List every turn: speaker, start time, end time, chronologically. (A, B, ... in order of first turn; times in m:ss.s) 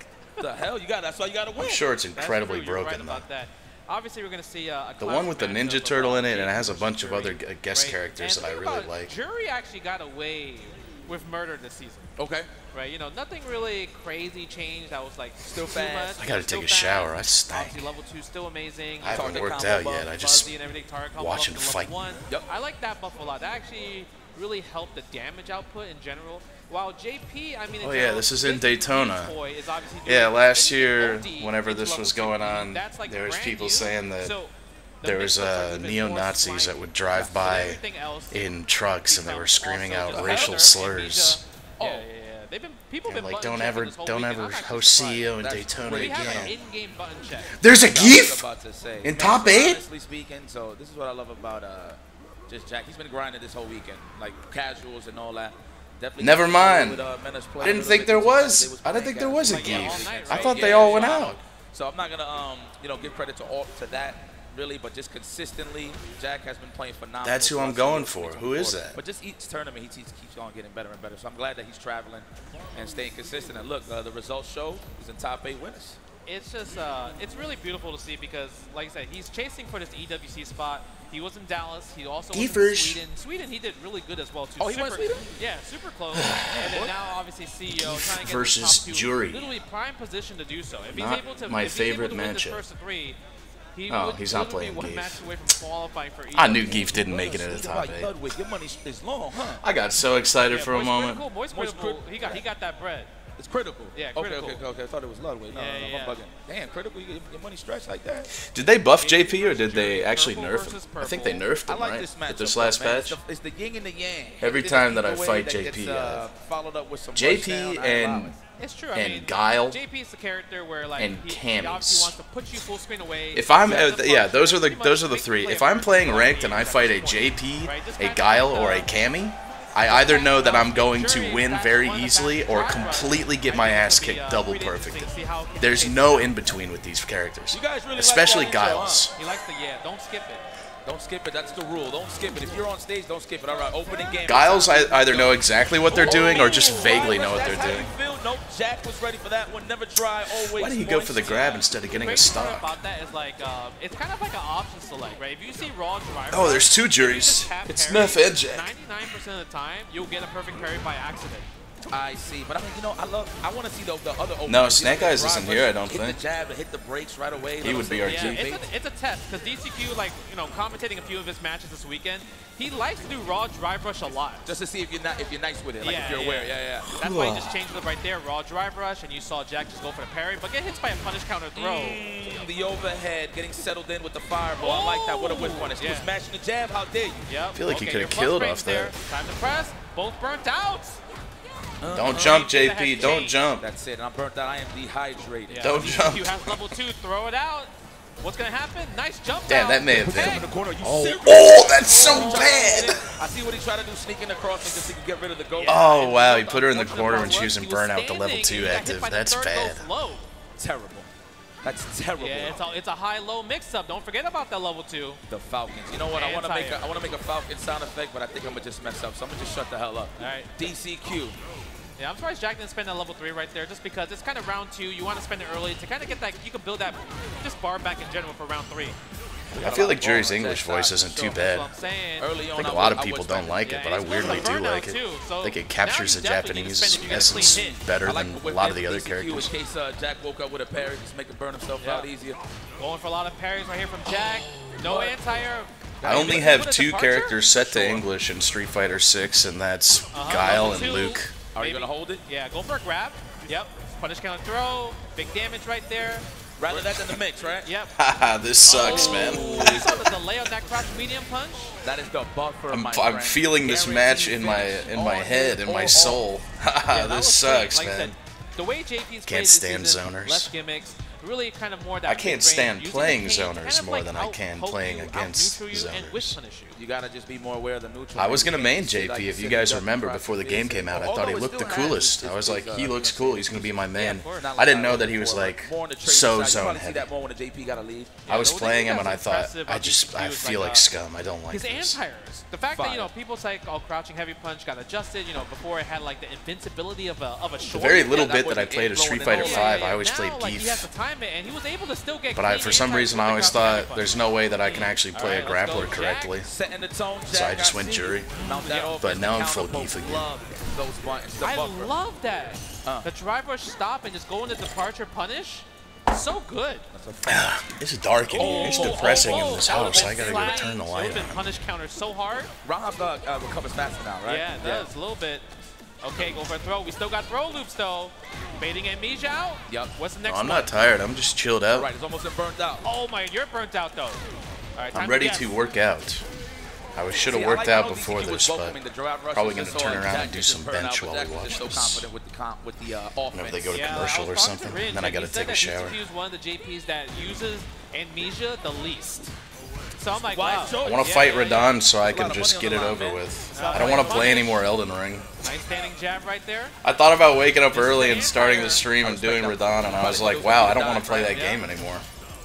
0:00.4-0:01.8 A
0:01.6-0:03.2 B
0:02.1-0:12.1 C
0:05.0-0:09.1 B
0:12.2-0:12.5 A
0:12.7-0:19.5 C
0:15.4-0:16.2 A
0:16.2-0:17.9 B
0:19.0-0:20.5 B
0:19.1-0:20.1 A
0:20.1-0:47.5 C
0:21.2-0:21.9 B
0:27.8-0:29.4 B
0:30.0-0:34.4 B
0:35.0-0:41.4 B
0:40.1-0:40.7 A
0:41.8-0:42.0 A
0:43.0-0:46.6 B
0:45.4-0:46.6 A
0:47.6-0:48.4 B
0:47.6-1:16.0 A
0:49.0-0:49.8 B
0:56.2-1:01.4 B
0:59.5-1:01.4 C
1:07.2-1:09.0 B
1:16.2-1:33.2 C
1:22.3-1:23.0 B
1:24.6-1:25.4 A
1:26.1-1:26.8 B
1:26.5-1:26.9 A
1:27.7-1:29.5 B
1:30.9-1:32.6 B
1:33.7-1:36.9 C
1:33.9-1:35.2 B
1:36.3-1:38.1 B
1:36.7-1:39.6 A
1:39.6-1:41.2 B
1:40.5-1:43.1 C
1:41.5-1:42.4 A
1:43.4-1:48.3 A
1:43.9-1:44.6 C
1:45.5-1:46.2 C
1:48.3-1:53.2 B
1:49.0-1:51.4 C
1:51.6-1:58.4 A
1:54.4-1:56.3 B
1:57.1-1:58.3 B
1:58.6-2:08.9 C
1:58.9-1:59.8 B
2:01.0-2:02.2 B
2:03.3-2:19.1 B
2:09.9-2:16.3 C
2:17.5-2:19.1 A
2:19.2-2:20.4 C
2:20.8-2:31.6 A
2:24.2-2:27.9 B
2:25.9-2:27.1 C
2:30.3-2:32.8 B
2:31.9-2:41.5 C
2:36.3-2:38.7 B
2:41.9-2:48.7 A
2:44.5-2:46.2 B
2:47.6-2:48.4 B
2:48.0-2:54.4 C
2:54.4-2:56.9 A
2:55.8-3:02.0 C
2:56.9-2:57.5 B
3:01.5-3:07.3 A
3:04.6-3:06.1 C
3:07.3-3:11.0 C
3:07.5-3:08.9 B
3:11.8-3:12.4 A
3:11.9-3:13.6 B
3:12.1-3:13.4 C
3:13.6-3:16.0 A
3:15.5-3:20.4 C
3:15.6-3:16.7 B
3:19.5-3:23.1 B
3:19.9-3:25.8 A
3:21.7-3:23.0 C
3:25.6-3:30.3 C
3:25.6-3:29.9 B
3:30.6-3:31.1 A
3:31.6-3:32.6 A
3:32.2-3:35.2 C
3:35.3-3:41.4 A
3:36.1-3:37.1 C
3:40.2-3:40.5 C
3:42.0-3:49.0 C
3:49.5-3:51.7 B
3:49.5-3:51.2 A
3:49.6-3:50.0 C
3:51.0-3:52.3 C
3:52.2-3:53.5 A
3:52.6-3:59.5 B
3:53.6-3:57.8 C
3:54.1-3:54.4 A
3:57.4-4:02.4 A
4:01.8-4:02.0 C
4:02.8-4:08.0 C
4:04.6-4:05.3 A
4:06.0-4:06.4 A
4:06.0-4:11.3 B
4:10.1-4:16.2 C
4:11.5-4:12.2 A
4:16.6-4:17.7 A
4:17.6-4:17.9 C
4:18.0-4:19.9 B
4:18.7-4:21.8 C
4:18.7-4:19.9 A
4:21.8-4:26.2 A
4:22.7-4:28.1 B
4:26.9-4:36.8 C
4:29.2-4:30.5 B
4:32.0-4:36.4 B
4:36.7-4:43.8 A
4:38.2-4:47.1 B
4:43.9-4:44.4 C
4:44.3-4:48.4 A
4:48.3-4:50.9 C
4:48.3-4:52.0 B
4:51.5-4:58.1 C
4:52.8-4:53.1 A
4:57.7-5:00.9 B
4:57.8-4:59.8 A
4:59.2-5:04.1 C
5:02.3-5:06.5 B
5:04.6-5:06.3 C
5:06.4-5:11.9 A
5:07.3-5:08.3 B
5:08.4-5:09.0 C
5:08.9-5:10.3 B
5:11.4-5:16.8 C
5:16.9-5:17.7 A
5:17.2-5:21.4 B
5:18.3-5:20.6 A
5:18.3-5:22.5 C
5:22.6-5:24.9 A
5:24.2-5:25.5 C
5:26.0-5:30.7 C
5:29.7-5:29.9 A
5:30.2-5:31.9 B
5:31.7-5:32.8 A
5:32.8-5:34.2 C
5:34.8-5:35.5 C
5:34.9-5:36.2 B
5:36.9-5:38.8 B
5:37.1-5:43.8 A
5:39.3-5:42.1 B
5:43.3-5:46.0 B
5:43.7-5:49.3 C
5:50.0-5:51.7 C
5:50.3-5:54.4 A
5:50.8-5:55.4 B
5:53.5-5:54.6 C
5:55.4-5:56.7 C
5:56.8-6:02.0 B
5:57.7-5:58.8 C
5:59.0-6:01.3 A
6:01.0-6:01.6 C